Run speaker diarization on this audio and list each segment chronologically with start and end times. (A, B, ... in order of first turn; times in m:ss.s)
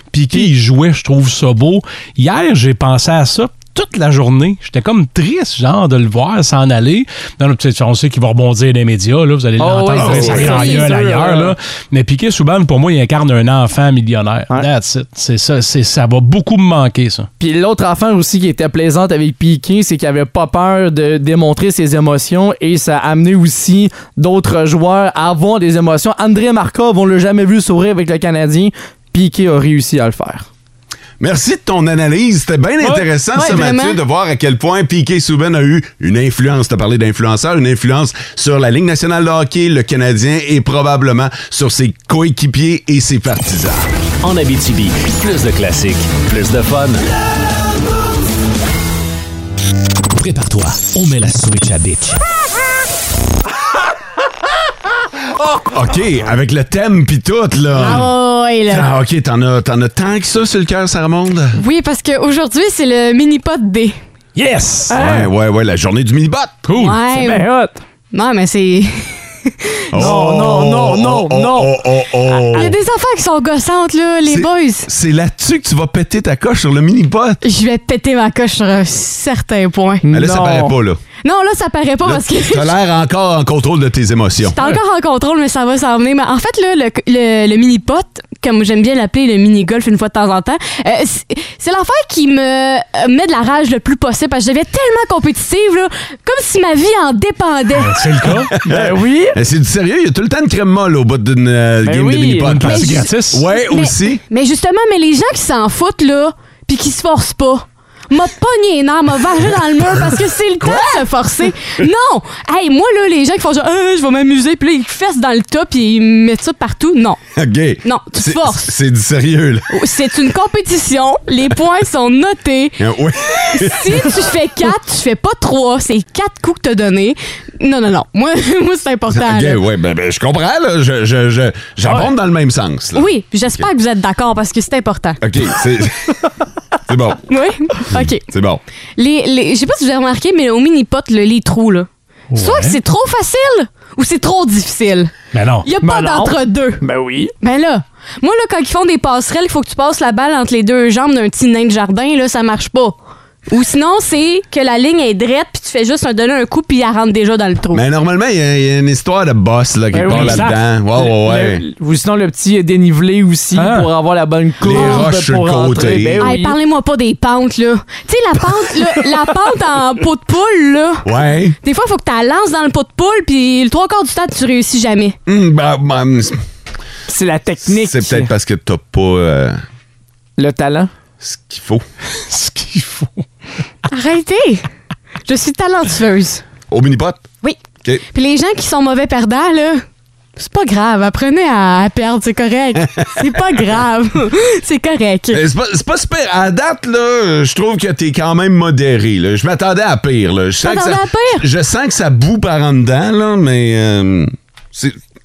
0:00.1-0:17.3 A
0:09.6-0:11.5 B
0:10.0-0:10.6 C
0:17.4-0:30.5 B
0:31.2-0:43.9 C
0:33.3-0:34.0 D
0:44.2-0:47.0 E
0:50.2-0:52.2 E
0:55.7-0:58.1 C
0:57.8-0:58.9 D
0:58.7-1:01.6 C
1:01.5-1:04.0 D
1:04.4-1:05.0 A
1:04.9-1:05.3 B
1:04.9-1:06.7 C
1:06.6-1:07.0 A
1:06.7-1:07.5 D
1:07.1-1:07.8 B
1:08.1-1:09.8 D
1:09.9-1:12.8 C
1:10.0-1:11.8 B
1:12.5-1:14.9 D
1:14.2-1:17.4 C
1:17.4-1:20.0 D
1:20.0-1:20.8 B
1:20.1-1:21.0 C
1:21.2-1:22.8 D
1:22.0-1:24.6 C
1:24.4-1:38.1 D
1:37.8-1:38.5 A
1:38.2-1:44.2 C
1:38.6-1:39.4 B
1:41.8-1:42.6 B
1:42.5-1:43.5 A
1:42.6-1:57.2 D
1:50.6-1:51.0 C
1:57.4-1:59.8 C
1:57.8-1:58.7 D
1:59.7-2:02.8 D
2:02.8-2:04.2 C
2:03.5-2:09.6 D
2:09.1-2:13.6 C
2:13.0-2:15.2 D
2:15.2-2:16.2 C
2:16.9-2:17.2 C
2:17.3-2:18.2 D
2:18.0-2:18.6 C
2:19.0-2:26.8 D
2:22.3-2:22.8 A
2:25.3-2:25.7 A
2:25.8-2:27.3 B
2:27.4-2:33.0 D
2:33.5-2:37.8 D
2:37.7-2:41.6 C
2:39.9-2:46.6 B
2:40.1-2:40.5 A
2:43.6-2:43.9 A
2:44.6-2:46.3 C
2:44.7-2:45.1 D
2:46.2-2:55.2 D
2:51.0-2:51.6 C
2:55.2-2:56.4 C
2:57.1-2:58.3 B
2:57.7-2:59.6 C
3:00.4-3:00.9 B
3:01.2-3:01.8 C
3:02.3-3:03.2 A
3:03.9-3:04.7 D
3:05.2-3:06.4 D
3:06.7-3:07.3 C
3:08.1-3:09.8 D
3:10.4-3:15.4 D
3:15.3-3:25.0 C
3:20.6-3:21.5 D